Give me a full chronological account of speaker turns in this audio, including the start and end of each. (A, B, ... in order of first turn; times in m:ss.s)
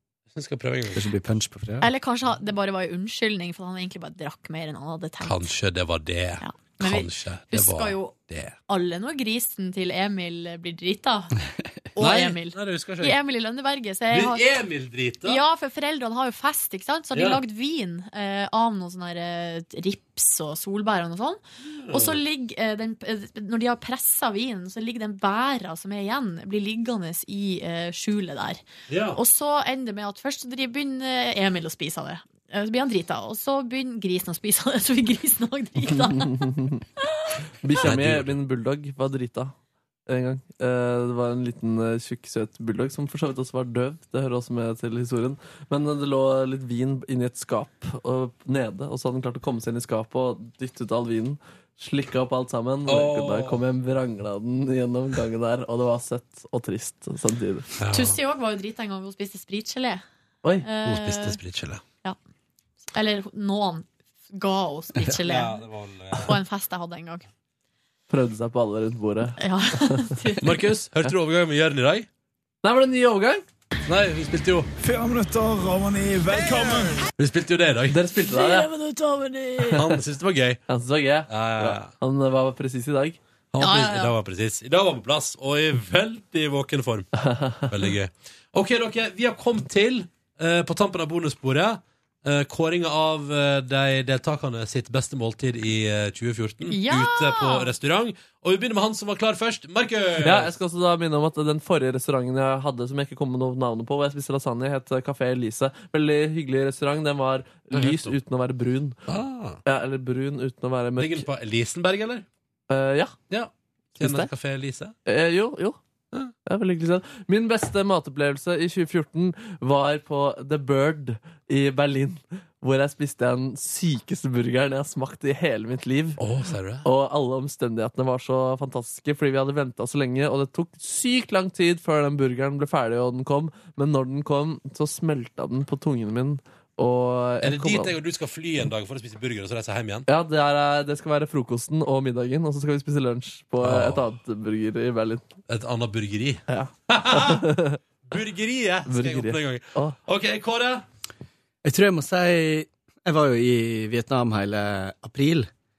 0:00.3-0:01.1 A
0:00.9-0:01.9 B
0:01.8-0:05.5 C
0:05.2-0:08.6 A
0:06.4-0:08.2 C
0:08.7-0:11.3 C
0:12.0-0:14.5 C
0:12.0-0:13.2 A
0:14.1-0:15.4 A
0:15.2-0:21.4 C
0:17.1-0:17.4 A
0:21.6-0:22.2 A
0:21.9-0:28.6 C
0:28.9-0:29.2 A
0:29.1-0:37.3 C
0:35.9-0:36.8 D
0:37.6-0:39.5 D
0:37.8-0:38.4 A
0:40.1-0:57.7 D
0:52.9-0:53.6 A
0:57.8-0:58.2 A
0:57.9-1:00.0 C
1:00.6-1:01.4 C
1:00.8-1:01.8 A
1:02.9-1:05.6 C
1:05.2-1:06.4 A
1:06.2-1:07.3 C
1:08.1-1:10.1 D
1:09.4-1:10.5 C
1:10.4-1:12.1 A
1:12.6-1:13.4 D
1:13.9-1:14.7 A
1:14.8-1:17.1 E
1:17.2-1:18.0 A
1:17.9-1:18.7 D
1:18.2-1:19.8 C
1:19.7-1:19.9 D
1:19.8-1:20.6 A
1:20.7-1:23.2 D
1:21.3-1:21.9 A
1:23.5-1:27.1 A
1:23.6-1:24.2 C
1:27.2-1:27.7 D
1:27.7-1:40.6 A
1:36.7-1:37.7 C
1:40.2-1:49.0 D
1:47.7-1:48.2 A
1:49.1-1:49.6 A
1:49.7-1:51.3 D
1:51.0-1:52.3 A
1:52.7-1:53.2 D
1:53.3-1:55.0 A
1:54.0-1:54.3 D
1:55.1-1:55.8 D
1:56.5-2:06.2 D
2:06.2-2:06.9 A
2:06.8-2:17.9 D
2:17.4-2:20.1 A
2:20.1-2:25.2 D
2:23.6-2:24.0 A
2:25.5-2:27.4 A
2:26.5-2:27.8 D
2:28.1-2:30.8 A
2:28.9-2:30.0 D
2:31.6-2:35.5 B